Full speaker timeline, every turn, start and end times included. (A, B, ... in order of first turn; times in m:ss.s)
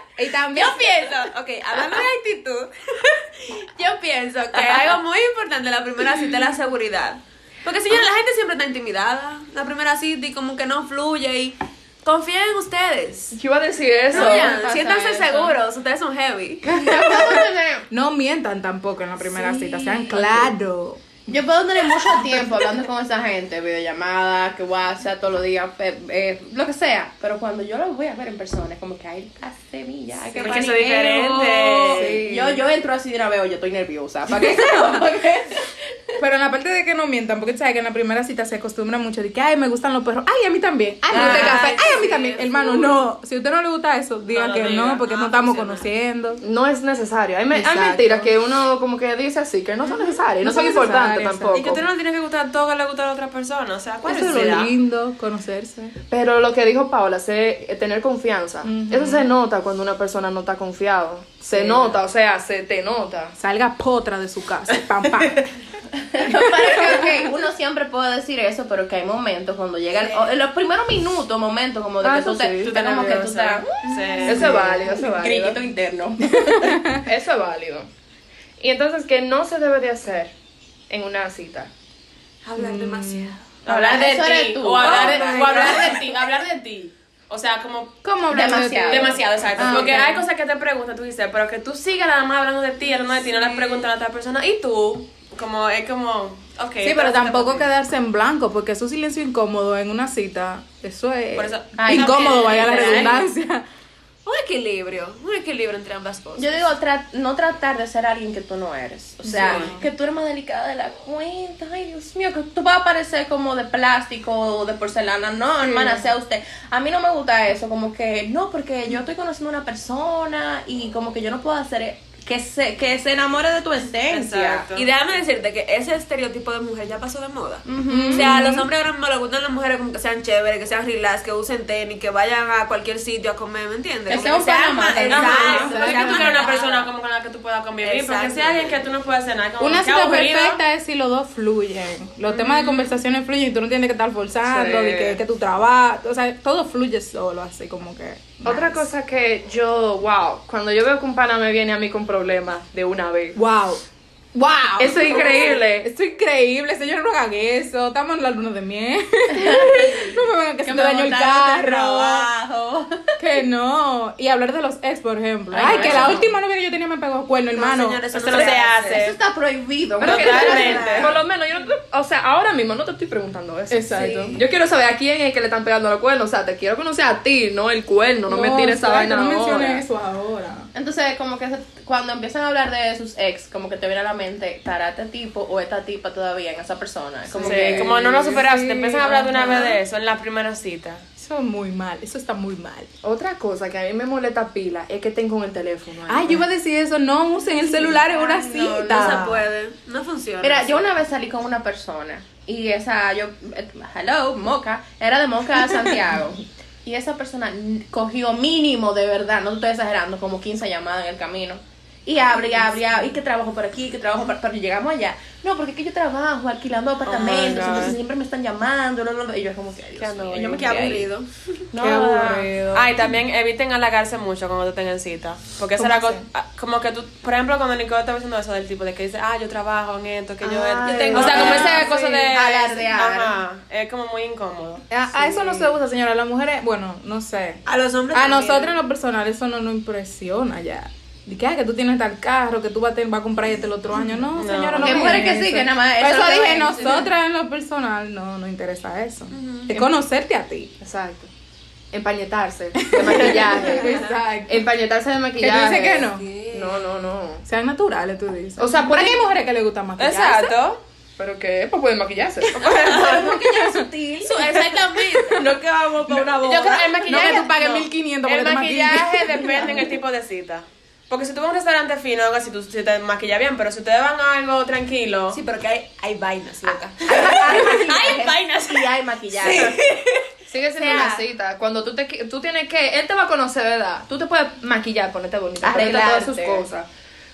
0:00.2-0:00.9 A
0:00.5-0:13.4 B
0:13.3-0:14.6 C
0:14.1-0:16.7 B
0:14.1-0:15.3 D
0:16.6-0:21.2 A
0:16.7-0:17.8 D
0:19.2-0:20.5 D
0:21.3-0:36.2 D
0:30.3-0:32.2 E
0:30.4-0:31.5 B
0:31.9-0:32.6 C
0:34.4-0:35.0 A
0:36.2-0:46.4 A
0:41.1-0:42.9 B
0:41.1-0:41.8 E
0:41.2-0:41.7 D
0:44.3-0:45.8 E
0:46.4-0:51.8 C
0:47.5-0:48.3 A
0:50.4-0:51.8 A
0:51.5-0:54.7 E
0:54.0-0:55.9 A
0:56.1-1:03.3 C
0:58.6-0:59.3 A
1:01.5-1:01.9 A
1:03.4-1:05.5 A
1:06.0-1:16.7 D
1:06.7-1:07.1 A
1:12.0-1:13.3 C
1:12.6-1:14.6 E
1:13.8-1:14.3 B
1:14.2-1:15.6 C
1:16.2-1:17.0 A
1:16.9-1:17.9 C
1:18.6-1:20.3 C
1:20.9-1:21.7 C
1:22.4-1:23.4 B
1:22.6-1:23.4 A
1:23.6-1:28.1 E
1:23.6-1:26.0 D
1:24.8-1:26.0 B
1:24.8-1:25.8 A
1:28.0-1:30.2 A
1:28.3-1:30.0 D
1:28.9-1:37.7 E
1:33.2-1:33.8 B
1:36.8-1:43.6 A
1:41.3-1:43.2 E
1:41.8-1:43.2 D
1:44.2-1:46.7 B
1:46.4-2:04.6 D
1:49.3-1:49.8 A
1:49.4-1:49.8 E
2:04.1-2:04.9 E
2:04.7-2:16.9 B
2:07.6-2:08.3 D
2:07.9-2:08.7 A
2:14.1-2:16.3 D
2:15.1-2:20.6 E
2:15.1-2:16.5 A
2:17.8-2:18.8 B
2:19.6-2:28.8 A
2:22.3-2:22.9 E
2:24.4-2:25.2 C
2:28.4-2:33.4 C
2:33.4-2:33.8 A
2:34.3-2:42.3 A
2:34.8-2:35.9 C
2:35.1-2:35.6 D
2:39.3-2:43.2 D
2:43.2-2:48.0 A
2:45.5-2:46.3 D
2:45.7-2:46.1 E
2:47.5-2:49.0 B
2:48.1-2:49.2 E
2:48.3-2:51.1 D
2:50.0-2:59.8 C
2:50.0-2:51.1 E
2:53.7-2:54.4 A
2:53.9-2:54.4 D
2:58.3-3:00.7 A
3:00.7-3:08.0 D
3:07.3-3:08.4 C
3:07.4-3:11.0 E
3:07.8-3:09.8 A
3:11.2-3:12.9 A
3:13.0-3:16.4 C
3:16.1-3:19.4 A
3:17.8-3:19.2 D
3:18.5-3:20.8 B
3:20.4-3:41.1 D
3:37.0-3:38.0 E
3:37.2-3:37.9 B
3:40.0-3:40.8 E
3:40.5-3:41.3 B
3:41.7-3:42.5 D
3:41.8-3:43.1 A
3:41.8-3:55.3 E
3:45.8-3:46.2 A
3:50.4-3:53.4 D
3:50.8-3:52.2 B
3:51.2-3:51.9 A
3:54.9-3:57.6 A
3:57.6-3:58.7 B
3:58.1-4:10.7 A
4:04.3-4:05.2 E
4:04.8-4:07.1 D
4:09.3-4:09.8 B
4:10.8-4:11.3 C
4:11.9-4:17.4 C
4:12.8-4:14.6 A
4:15.4-4:16.2 A
4:16.1-4:16.9 B
4:17.4-4:20.6 A
4:18.6-4:19.2 C
4:20.0-4:20.8 E
4:21.2-4:22.8 C
4:22.6-4:23.3 E
4:22.6-4:25.5 B
4:22.8-4:24.5 D
4:22.8-4:23.9 A
4:25.4-4:27.4 D
4:26.0-4:35.4 E
4:27.0-4:29.8 A
4:35.3-4:40.2 B
4:37.0-4:39.8 D
4:40.5-4:46.9 C
4:40.8-4:41.2 D
4:45.6-4:46.6 D